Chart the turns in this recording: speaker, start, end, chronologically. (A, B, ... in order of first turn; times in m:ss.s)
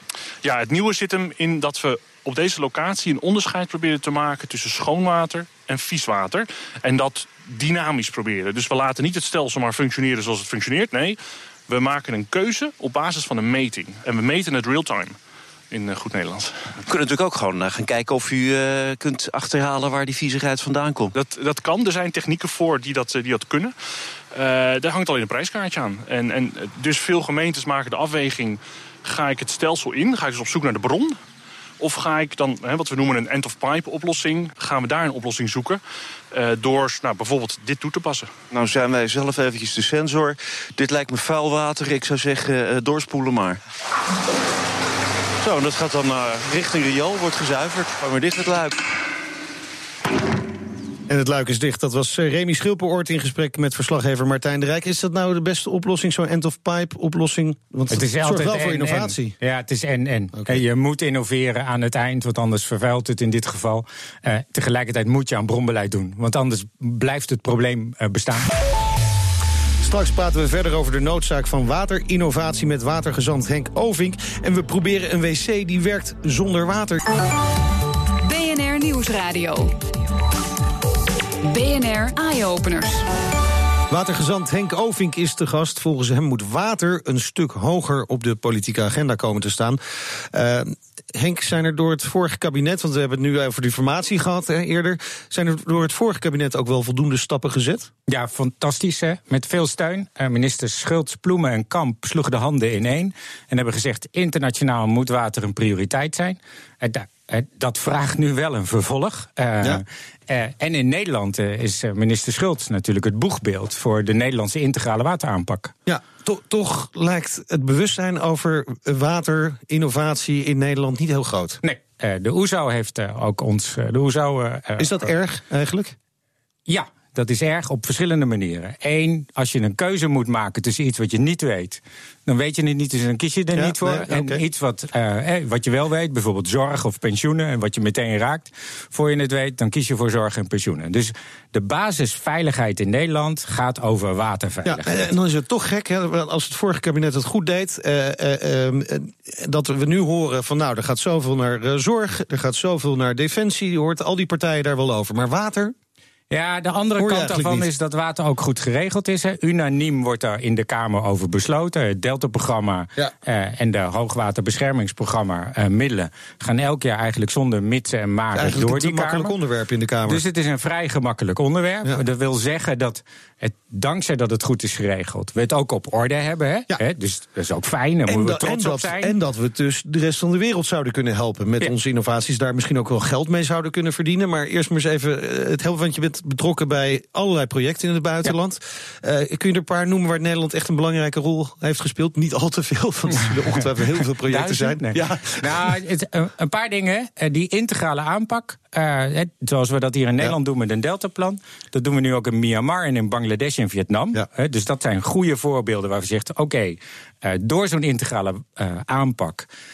0:00.4-0:15.2 A
0:15.7-0:16.6 A
0:16.8-0:21.1 B
0:21.1-0:23.7 A
0:24.3-0:31.2 A
0:31.8-0:35.8 A
0:36.3-0:38.3 A
0:38.5-0:43.6 B
0:45.4-0:48.8 B
0:51.1-0:59.4 C
0:57.9-1:08.5 D
1:00.3-1:00.6 C
1:09.8-1:17.0 C
1:18.2-1:19.8 E
1:21.4-1:23.0 E
1:23.9-1:29.8 C
1:30.3-1:37.9 C
1:38.1-1:55.7 D
1:55.8-2:01.6 C
2:01.6-2:05.1 D
2:04.8-2:06.0 C
2:06.7-2:25.1 D
2:13.5-2:14.4 C
2:24.6-2:35.7 C
2:36.3-2:49.3 D
2:37.0-2:37.7 C
2:48.3-2:50.2 C
2:50.1-2:59.1 D
2:58.1-3:15.7 C
3:14.2-3:29.5 D